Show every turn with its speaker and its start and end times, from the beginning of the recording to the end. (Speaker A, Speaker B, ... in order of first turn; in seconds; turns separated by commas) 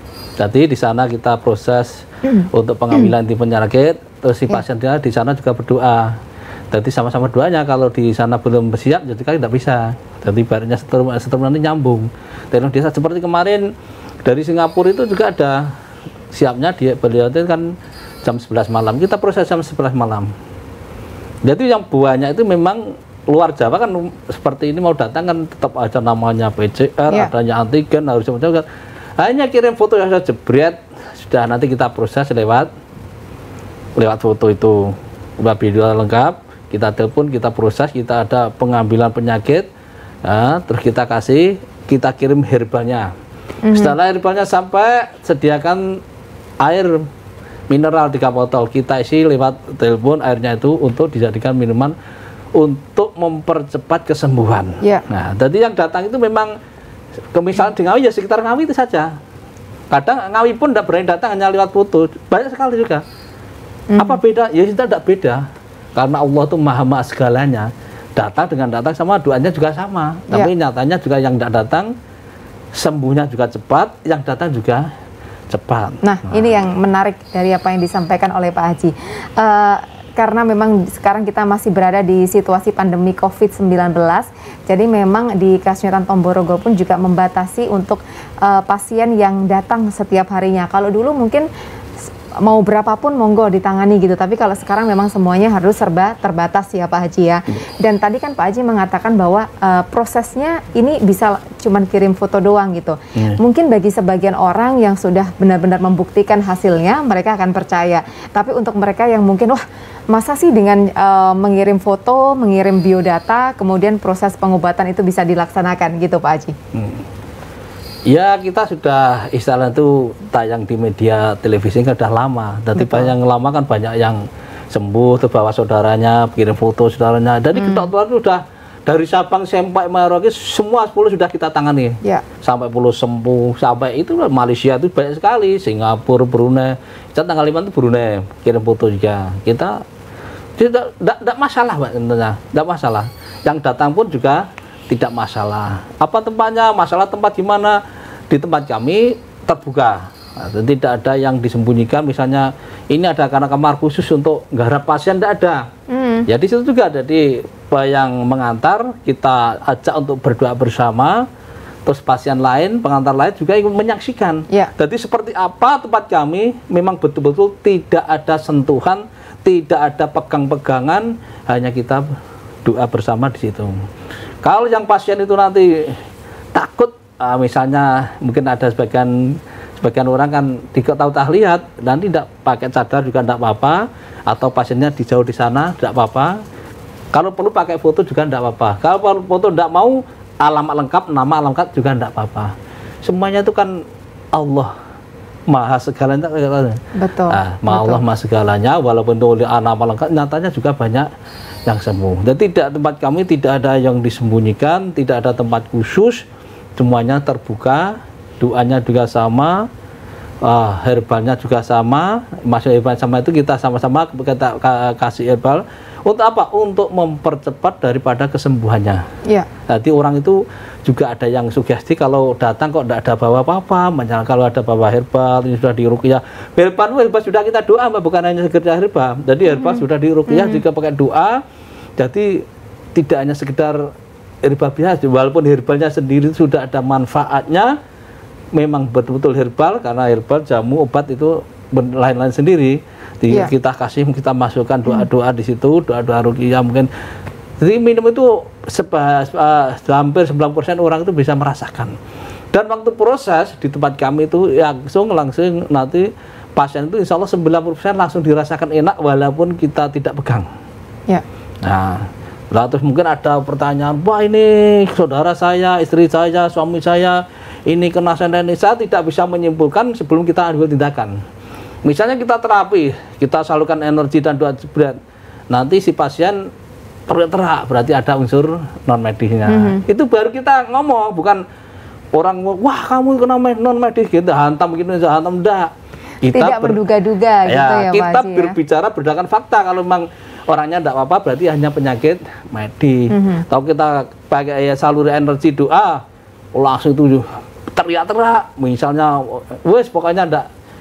Speaker A: 0.4-2.0, Speaker B: 2.3-3.1, Speaker A: 2.5-6.2, Speaker A: 6.7-13.7, Speaker A: 14.2-15.7, Speaker A: 16.3-17.7, Speaker A: 18.2-20.3, Speaker A: 21.4-28.6, Speaker A: 29.2-32.7, Speaker A: 34.0-39.7, Speaker A: 40.2-43.1, Speaker B: 43.6-43.9, Speaker A: 43.7-46.0, Speaker A: 46.6-47.1, Speaker A: 47.7-51.9, Speaker A: 52.6-56.5, Speaker A: 57.3-59.1, Speaker A: 59.9-63.0, Speaker B: 63.9-64.2, Speaker A: 64.0-65.4, Speaker A: 66.0-71.9, Speaker A: 72.8-74.9, Speaker A: 75.5-76.6, Speaker B: 76.0-91.5, Speaker B: 92.4-116.5, Speaker A: 116.7-117.0, Speaker A: 118.1-139.8, Speaker B: 122.8-123.1, Speaker B: 127.5-127.9, Speaker A: 140.6-147.8, Speaker A: 148.3-155.7, Speaker B: 155.9-156.3, Speaker A: 156.3-161.2, Speaker A: 161.9-172.1, Speaker A: 172.7-173.8, Speaker A: 174.4-176.0, Speaker A: 176.6-186.4, Speaker A: 187.1-192.5, Speaker A: 193.1-193.8, Speaker A: 194.3-194.7, Speaker A: 195.5-196.8, Speaker B: 197.0-198.0, Speaker A: 197.3-201.1, Speaker A: 201.7-206.2, Speaker A: 206.8-209.7, Speaker A: 210.4-219.0, Speaker A: 219.7-231.4, Speaker B: 229.5-230.6, Speaker A: 232.0-232.4, Speaker A: 233.0-233.8, Speaker A: 234.4-237.8, Speaker A: 238.6-246.9, Speaker A: 247.6-252.0, Speaker A: 252.5-260.5, Speaker A: 261.6-271.2, Speaker A: 271.9-275.0, Speaker A: 275.5-276.4, Speaker A: 277.1-281.4, Speaker B: 279.5-279.8, Speaker A: 282.1-285.7, Speaker A: 286.2-286.8, Speaker B: 286.3-288.6, Speaker A: 287.5-296.0, Speaker B: 293.1-293.4, Speaker A: 296.6-300.5